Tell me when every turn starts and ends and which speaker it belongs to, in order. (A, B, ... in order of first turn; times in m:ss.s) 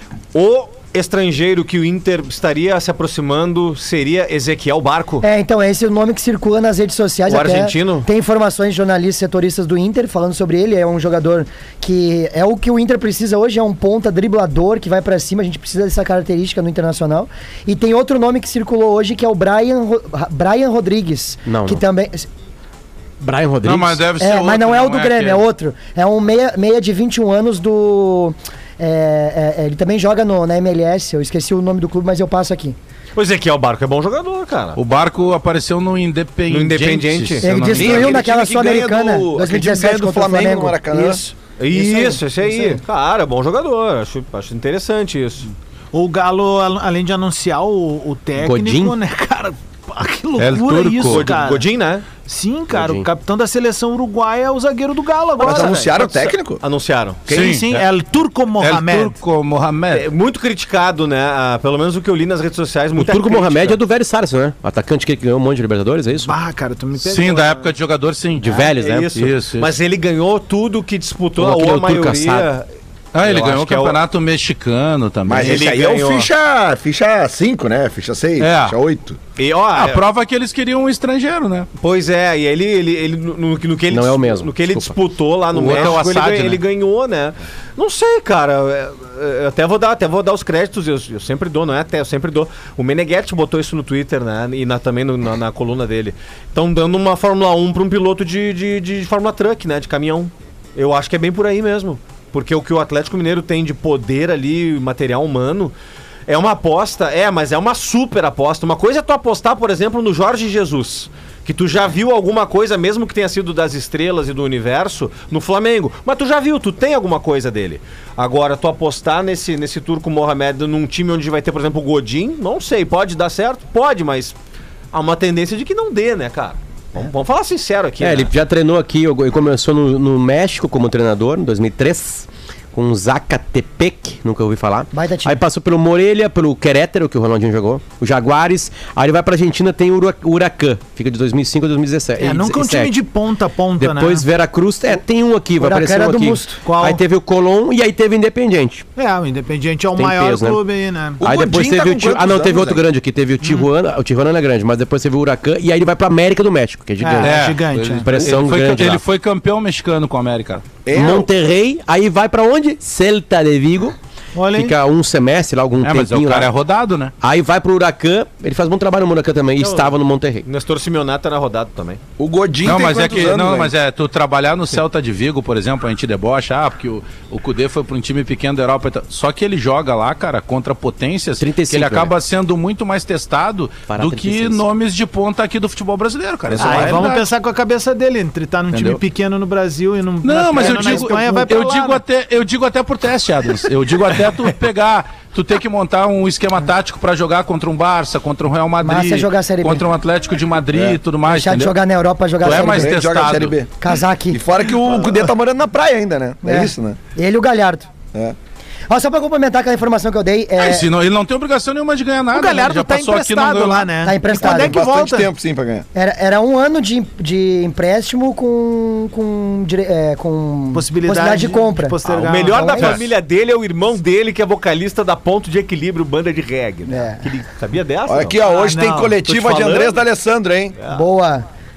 0:00.3-0:05.2 A
0:05.2-0:22.3 B
0:07.3-0:08.1 A
0:21.4-0:21.8 C
0:23.2-0:24.0 C
0:23.6-0:25.4 D
0:24.2-0:32.8 B
0:33.1-0:34.8 A
0:34.8-0:38.2 D
0:36.5-0:37.5 A
0:37.4-0:42.8 B
0:37.7-0:41.2 E
0:41.6-0:45.5 A
0:45.9-0:55.9 F
0:48.4-0:48.9 C
0:50.4-0:51.3 D
0:51.1-0:52.1 A
0:52.7-0:53.0 C
0:55.4-0:56.6 E
0:55.6-0:57.3 A
0:57.3-0:57.9 D
0:57.3-0:59.2 F
0:58.6-1:00.0 D
0:59.9-1:03.8 A
1:03.0-1:06.3 C
1:06.2-1:07.7 F
1:07.0-1:08.5 D
1:08.4-1:09.2 C
1:08.4-1:14.0 A
1:09.1-1:09.7 D
1:11.4-1:12.5 C
1:13.1-1:15.6 D
1:15.3-1:19.2 E
1:15.3-1:16.3 A
1:18.4-1:18.8 D
1:19.4-1:20.0 A
1:19.7-1:21.7 D
1:21.8-1:45.7 A
1:23.9-1:25.0 C
1:25.5-1:26.6 D
1:46.3-2:04.4 A
2:04.9-2:08.3 A
2:08.0-2:23.0 C
2:14.9-2:15.4 B
2:22.2-2:24.3 F
2:23.8-2:28.8 C
2:25.6-2:26.6 B
2:26.6-2:27.0 F
2:29.0-2:31.2 F
2:30.0-2:30.6 C
2:31.2-2:32.8 E
2:31.2-2:37.3 C
2:33.4-2:33.7 F
2:37.0-2:38.2 F
2:37.2-2:40.6 D
2:38.0-2:39.0 C
2:40.8-2:41.3 E
2:40.9-2:43.9 C
2:44.4-2:44.8 F
2:44.5-2:46.5 C
2:45.8-2:47.1 D
2:47.2-2:50.4 C
2:49.6-2:52.0 A
2:52.2-2:53.7 E
2:52.6-3:07.2 D
3:01.4-3:02.1 C
3:03.9-3:04.6 C
3:06.5-3:07.1 C
3:06.6-3:12.0 F
3:08.7-3:09.0 D
3:10.2-3:21.7 D
3:18.8-3:19.8 B
3:20.7-3:21.0 E
3:21.3-3:23.0 B
3:22.4-3:23.6 D
3:22.4-3:23.7 E
3:23.8-3:24.4 B
3:24.3-3:27.0 E
3:26.4-3:27.9 B
3:28.9-3:30.9 B
3:30.6-3:33.9 D
3:32.3-3:35.3 F
3:34.0-3:34.8 B
3:34.4-3:35.9 E
3:35.9-3:43.0 B
3:40.7-3:42.8 F
3:42.0-3:48.5 A
3:46.9-3:47.3 B
3:48.1-3:50.8 E
3:48.4-3:49.2 F
3:49.2-3:50.0 A
3:50.8-3:51.0 A
3:50.9-3:51.5 B